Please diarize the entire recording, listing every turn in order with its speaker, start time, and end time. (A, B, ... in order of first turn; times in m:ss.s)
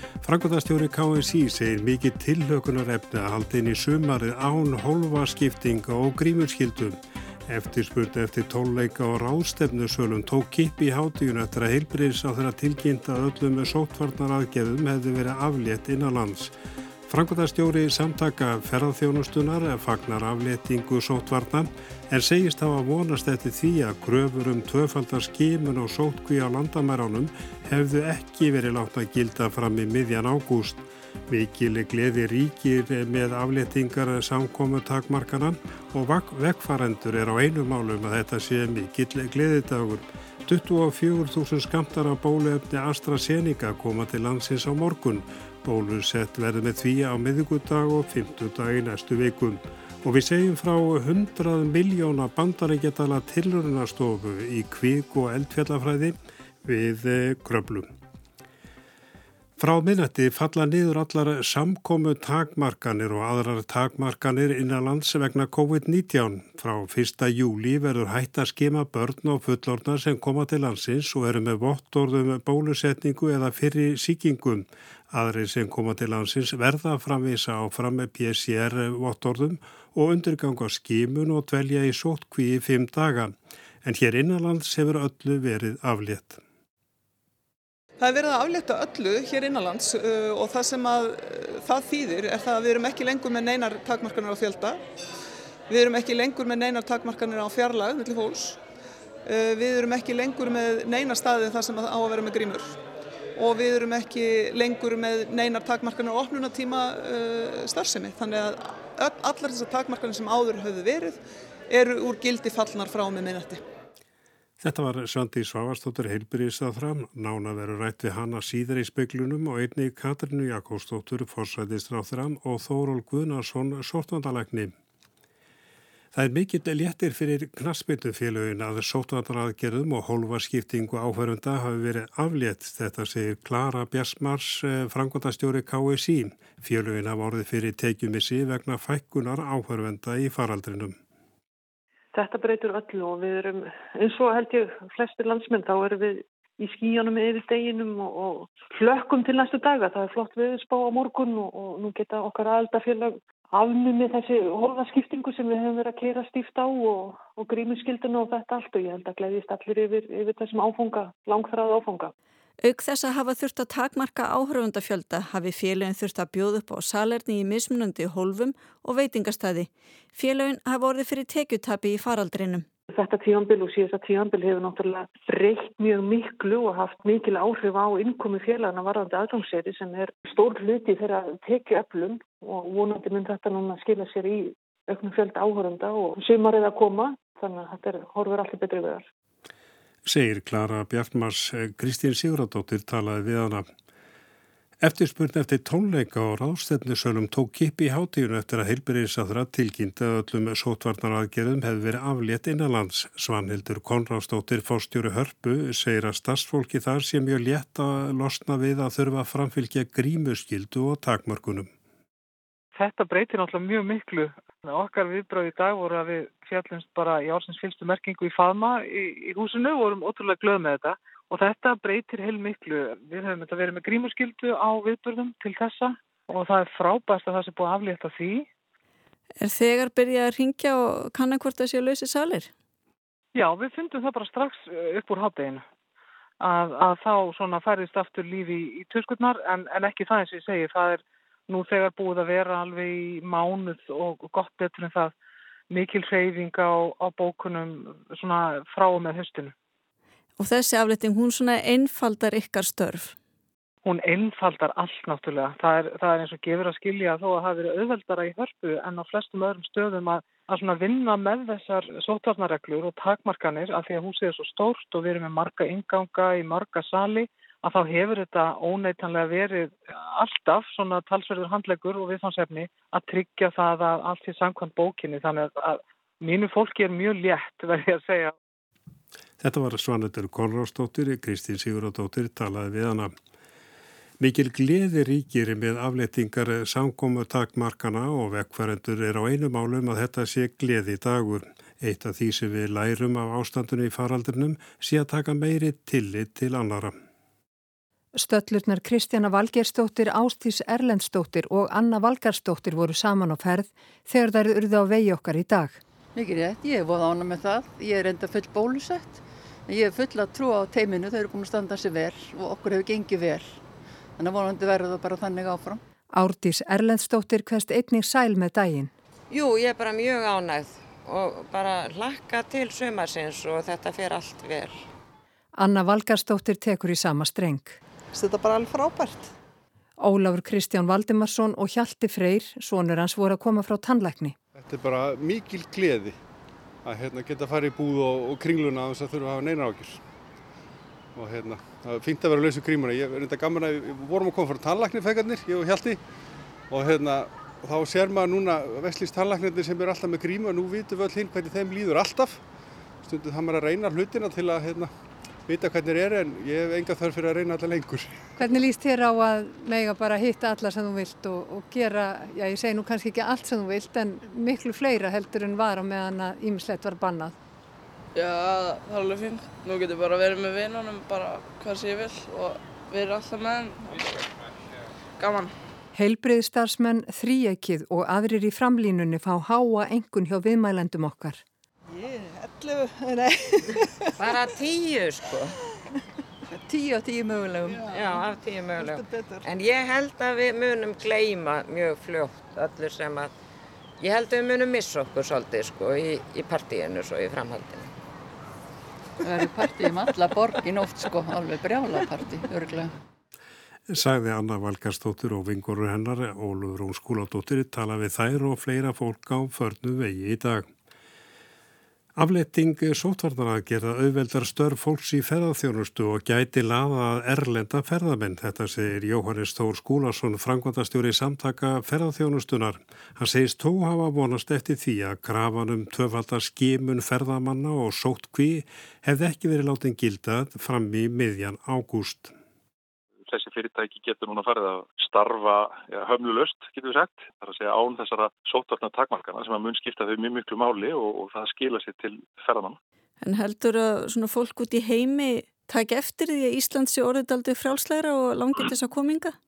0:00.2-0:16.5 A
0:17.1-0:57.9 A
0:59.6-1:26.4 A
1:28.0-1:34.8 B
1:35.7-1:38.6 B
1:39.2-1:42.8 B
1:43.4-1:53.6 B
1:54.6-2:04.7 A
2:06.1-2:21.0 A
2:22.1-2:42.1 C
2:42.6-2:52.7 D
2:52.9-3:09.0 C
3:10.1-3:13.7 A
3:14.8-3:31.7 A
3:32.7-3:48.5 E
3:49.4-3:52.5 D
3:53.4-3:55.6 E
3:56.4-4:05.1 E
4:05.7-4:09.5 E
4:10.4-4:13.2 D
4:13.8-4:38.3 E
4:39.4-4:43.1 A
4:44.2-4:57.0 A
4:58.2-5:05.8 F
5:06.2-5:13.6 G
5:14.2-5:15.8 G
5:16.1-5:18.9 F
5:19.3-5:24.8 H
5:25.6-5:27.8 F
5:28.1-5:29.3 G
5:30.0-5:34.4 F
5:34.6-5:36.2 I
5:36.8-5:40.0 I
5:41.2-5:46.0 I
5:46.7-5:52.4 I
5:53.0-5:54.9 I
5:55.5-5:58.2 I
5:58.4-6:07.4 F
6:08.2-6:14.2 J
6:15.2-6:15.5 J
6:15.9-6:21.4 F
6:21.9-6:24.4 G
6:24.2-6:25.5 H
6:26.6-6:29.5 G
6:27.7-6:33.3 H
6:34.0-6:37.9 H
6:39.2-6:42.9 G
6:43.9-6:50.7 A
6:52.2-7:12.3 A
7:13.3-7:22.8 K
7:23.2-7:29.4 D